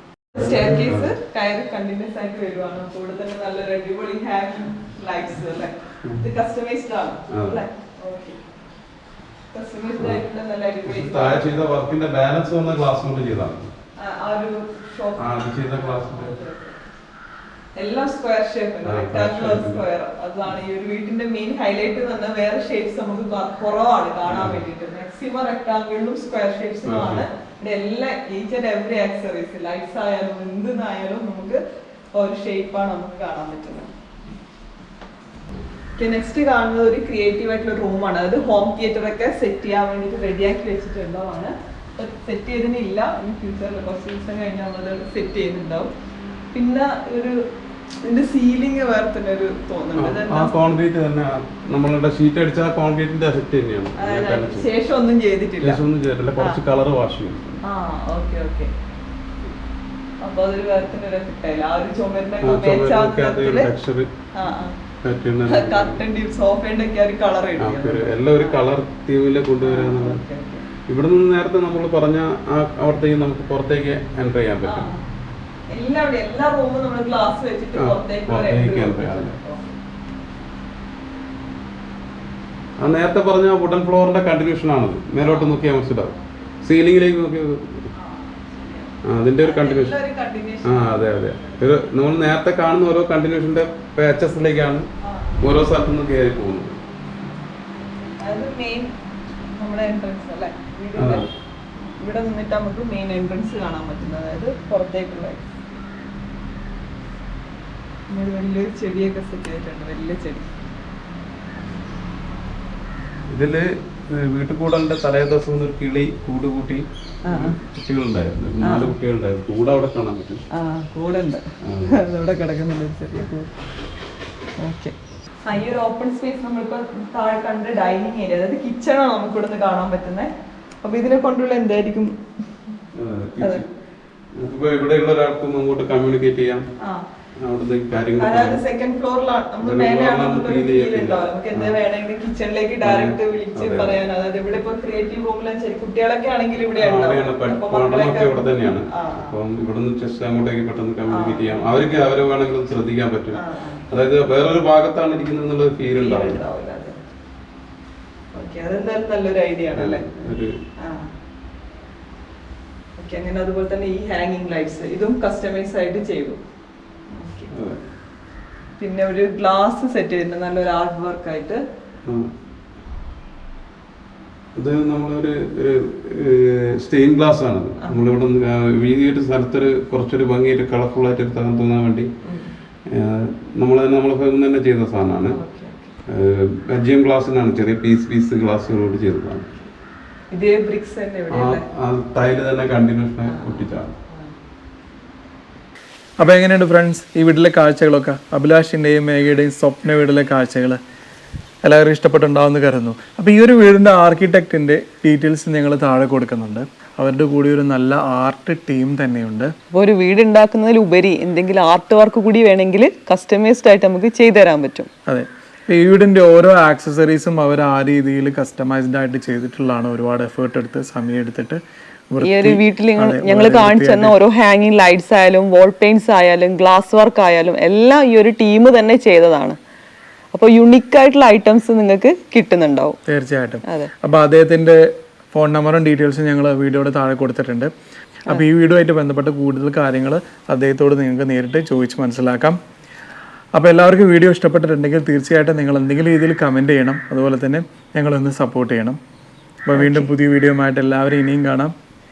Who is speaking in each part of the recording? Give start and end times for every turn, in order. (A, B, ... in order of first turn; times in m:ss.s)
0:00.3-0:01.1 A
0:00.3-0:08.4 B
0:07.3-0:07.6 A
0:09.5-0:11.6 B
0:10.8-0:13.7 A
0:14.0-0:16.8 B
0:15.2-0:16.4 A
0:17.8-0:31.6 B
0:18.8-0:19.8 A
0:24.2-0:24.6 A
0:26.8-0:27.2 A
0:32.1-0:33.9 B
0:36.0-0:45.9 B
0:46.5-0:47.3 B
0:48.0-0:50.8 B
0:49.9-0:54.7 A
0:54.0-0:55.8 B
0:55.6-0:57.6 A
0:57.7-0:58.7 B
1:00.2-1:03.7 B
1:02.4-1:04.1 A
1:04.4-1:04.8 B
1:05.0-1:06.0 A
1:05.4-1:08.6 B
1:07.6-1:10.2 A
1:09.6-1:10.6 B
1:10.9-1:14.9 A
1:14.6-1:15.0 B
1:15.7-1:19.7 B
1:17.7-1:19.4 A
1:22.8-1:27.8 A
1:25.2-1:25.6 B
1:28.0-1:31.1 B
1:29.0-1:30.0 A
1:30.6-1:34.8 A
1:35.0-1:35.6 B
1:35.4-1:36.8 A
1:38.2-1:38.9 B
1:39.5-1:41.3 B
1:41.0-1:41.3 A
1:42.0-1:45.4 B
1:48.1-1:50.5 B
1:53.3-2:00.4 A
1:57.3-1:57.6 B
1:58.6-1:58.9 B
2:00.5-2:03.5 B
2:01.6-2:02.0 A
2:04.6-2:10.3 B
2:10.8-2:12.1 B
2:12.9-2:13.7 A
2:14.4-2:16.6 A
2:17.4-2:18.6 A
2:18.2-2:29.4 B
2:19.6-2:21.8 A
2:22.8-2:24.0 A
2:26.8-2:36.4 A
2:31.1-2:31.6 B
2:33.4-2:33.8 B
2:35.9-2:36.9 B
2:38.3-2:40.1 B
2:39.7-2:40.6 A
2:40.8-2:41.1 B
2:43.0-2:46.4 B
2:47.1-2:47.5 B
2:47.5-2:47.8 A
2:48.8-2:51.6 B
2:52.0-2:52.3 A
2:54.6-3:02.1 A
3:02.2-3:02.5 B
3:02.9-3:05.4 A
3:05.3-3:06.0 B
3:06.1-3:09.6 A
3:10.3-3:11.6 B
3:11.3-3:13.9 A
3:13.2-3:14.3 B
3:16.2-3:20.8 C
3:21.6-3:29.5 C
3:29.7-3:34.9 B
3:35.1-3:44.2 C
3:42.2-3:49.6 B
3:50.3-3:53.0 B
3:53.1-3:57.7 C
3:58.3-4:02.6 C
4:03.5-4:09.0 C
4:09.6-4:11.7 C
4:09.8-4:10.1 B